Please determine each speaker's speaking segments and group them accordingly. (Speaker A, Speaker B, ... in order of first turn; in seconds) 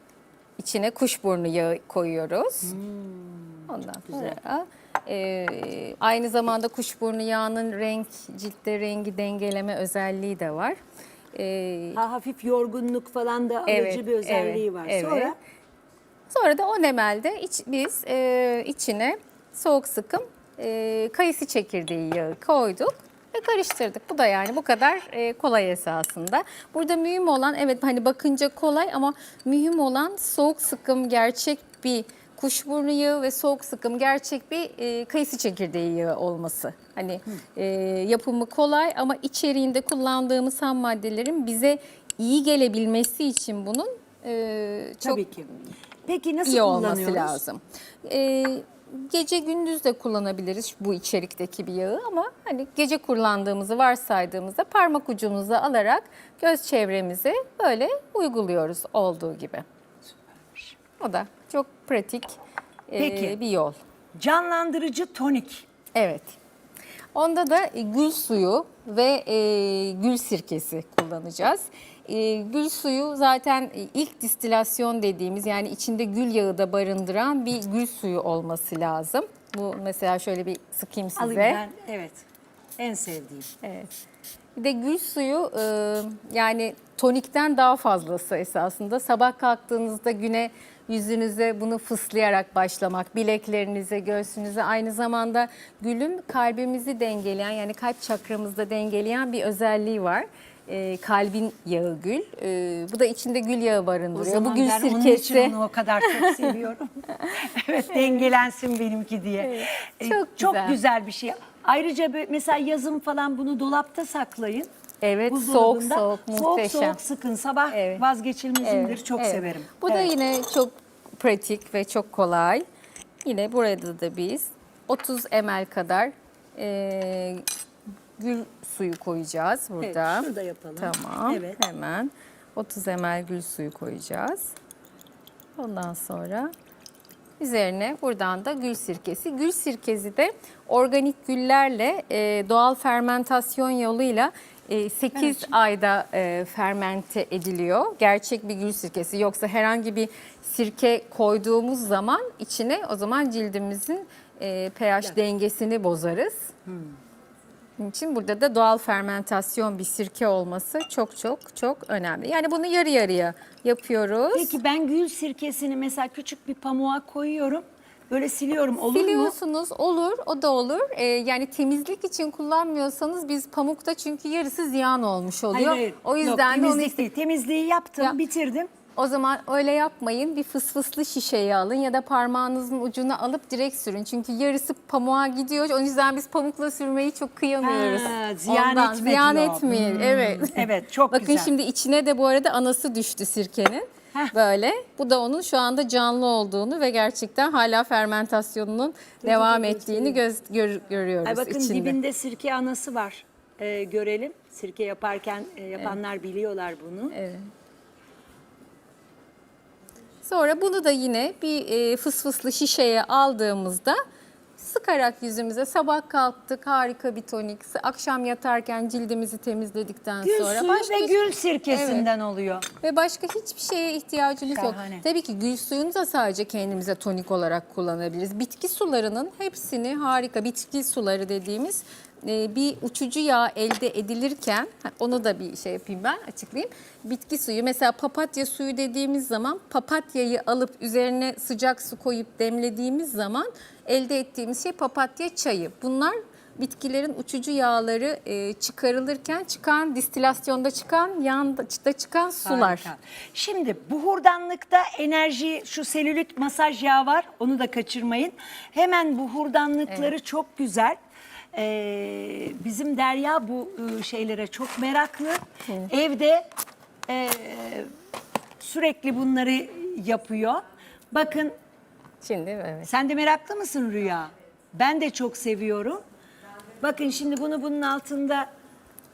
Speaker A: 0.6-2.8, 3.7-10.8, 11.3-12.0, 13.7-15.3, 16.3-45.2, 46.4-59.6, 61.0-62.4, 62.9-63.8, 65.9-66.3, 67.1-81.6, 83.6-83.9, 84.5-106.5, 107.9-108.3, 109.4-110.8, 115.0-117.0, 117.7-118.0, 118.6-122.6, 123.2-127.4, 128.2-134.5, 135.6-136.5, 137.4-156.5, 157.8-164.6, 168.9-177.0, 178.9-202.0, 207.1-207.5, 210.2-214.0, 214.6-222.1, 222.8-252.9, 272.2-272.9
Speaker B: 2.6-4.4, 11.9-15.3, 45.0-45.5, 46.0-47.4, 60.4-60.7, 63.0-63.4, 64.1-65.7, 81.2-82.2, 82.8-83.5, 104.1-114.7, 115.3-120.1, 129.8-131.6, 145.1-145.5, 164.3-169.3, 175.5-178.7, 187.6-191.5, 199.2-200.2, 201.2-207.2, 220.2-222.7, 224.5-225.0, 252.4-261.0, 261.5-266.4, 267.1-267.9, 268.6-271.5, 272.8-276.0, 276.8-278.5